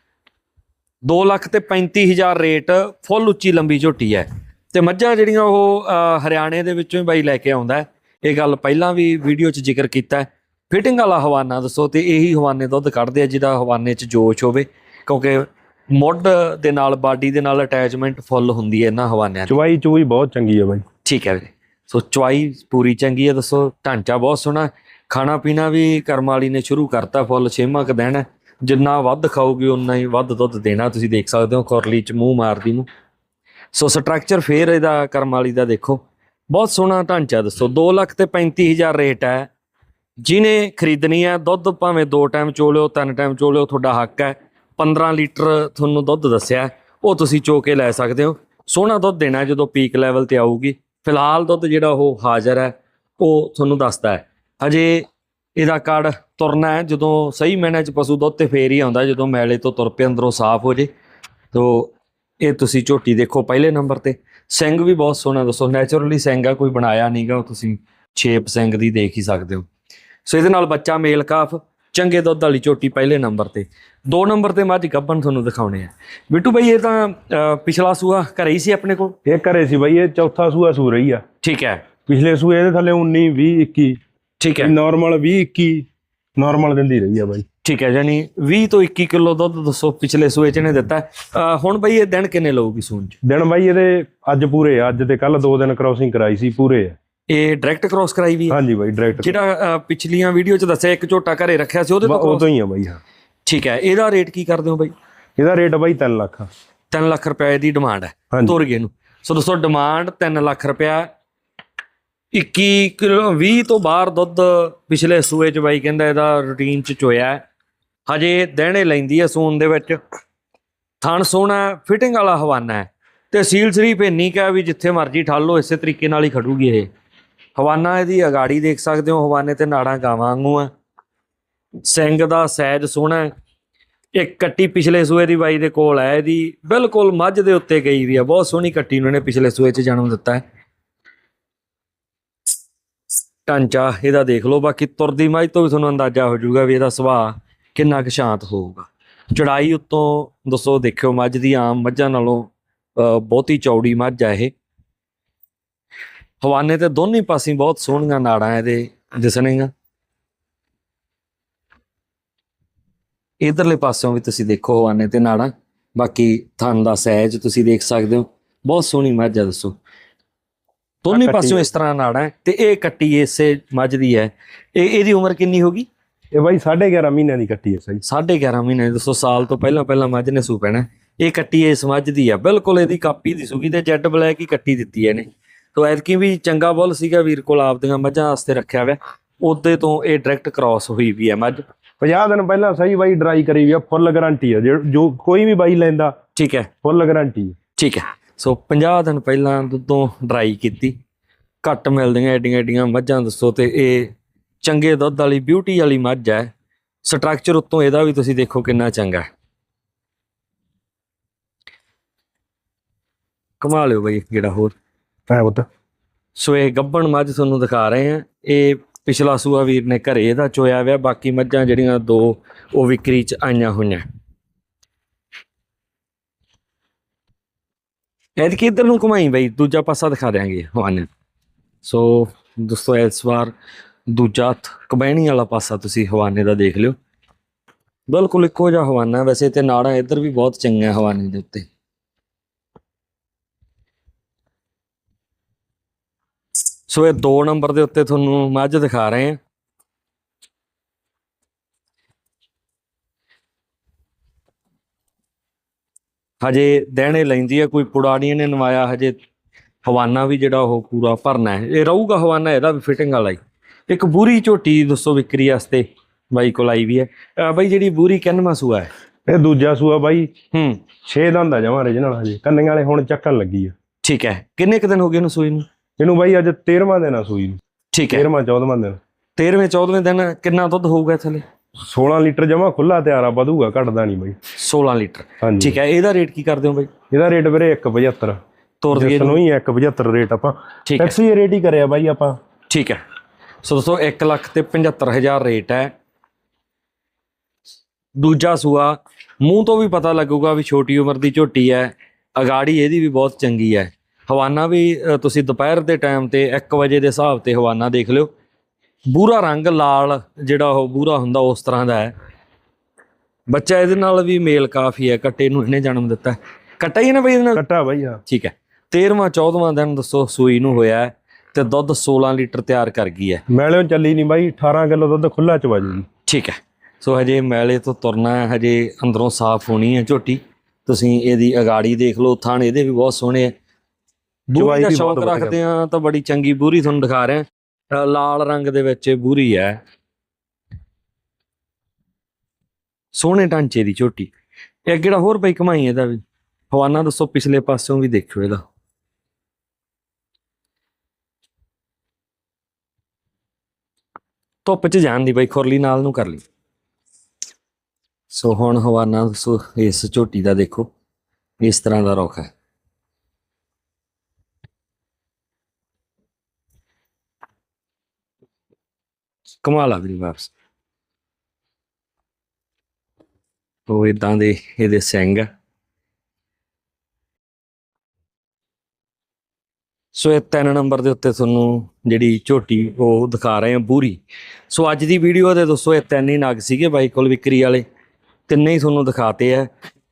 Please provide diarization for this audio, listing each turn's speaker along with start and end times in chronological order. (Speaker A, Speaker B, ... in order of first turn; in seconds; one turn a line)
Speaker A: 1.0-19.5
Speaker B: 19.5-20.8
Speaker A: 21.0-32.9
Speaker A: 33.7-39.5
Speaker A: 40.2-55.0
Speaker A: 55.6-60.9
Speaker A: 61.5-69.7
Speaker A: 70.2-79.2
Speaker B: 79.2-81.2
Speaker A: 81.4-81.8
Speaker B: 82.0-84.0
Speaker A: 84.4-84.7
Speaker B: 84.6-87.4
Speaker A: 87.6-93.2
Speaker B: 93.2-96.9
Speaker A: 97.3-98.6
Speaker B: 98.5-99.4
Speaker A: 99.2-102.4
Speaker B: 102.0-103.0
Speaker A: 103.5-104.9
Speaker B: 105.4-106.5
Speaker A: 106.9-111.1
Speaker B: 108.3-108.6
Speaker A: 112.3-117.4
Speaker A: 118.1-120.0
Speaker A: 121.0-126.9
Speaker A: 127.6-130.7
Speaker A: 131.8-133.3
Speaker A: 134.2-140.4
Speaker A: 143.4-154.5
Speaker A: 156.4-159.7
Speaker A: 163.4-169.8
Speaker A: 171.0-175.9
Speaker B: 171.1-171.7
Speaker B: 176.3-178.0
Speaker A: 178.0-191.6
Speaker B: 192.0-196.1
Speaker A: 196.3-196.7
Speaker B: 196.8-197.6
Speaker A: 197.8-200.9
Speaker A: 201.6-206.5
Speaker A: 207.0-209.2
Speaker A: 213.6-214.7
Speaker B: 215.3-215.7
Speaker A: 216.4-224.0
Speaker A: 228.4-231.1
Speaker A: 231.8-233.5
Speaker A: 234.1-236.9
Speaker A: 238.1-241.7
Speaker A: 246.9-249.4
Speaker A: 256.4-259.1
Speaker A: 259.8-268.9
Speaker B: 269.3-270.3
Speaker A: 270.5-270.8
Speaker B: 271.0-273.7
Speaker A: 274.0-275.6
Speaker B: 276.0-277.6
Speaker A: 277.9-278.3
Speaker B: 278.1-279.0
Speaker A: 279.4-281.4
Speaker B: 281.8-284.4
Speaker A: 284.5-286.9
Speaker B: 285.4-285.8
Speaker B: 287.1-288.4
Speaker A: 288.8-289.4
Speaker B: 288.9-292.4
Speaker A: 290.9-291.1
Speaker A: 292.7-293.0
Speaker A: 293.6-295.9
Speaker A: 298.1-308.3
Speaker A: 309.1-312.1
Speaker A: 313.5-317.6
Speaker B: 317.6-318.2
Speaker A: 318.2-323.4
Speaker B: 323.5-326.1
Speaker A: 326.2-333.5
Speaker A: 334.5-339.8
Speaker B: 334.5-335.6
Speaker A: 343.1-344.3
Speaker A: 344.9-348.6
Speaker A: 354.6-356.4
Speaker A: 358.3-360.9
Speaker A: 361.6-362.5
Speaker A: 369.6-370.5
Speaker A: 373.9-375.5
Speaker A: 380.1-387.8
Speaker A: 388.5-389.7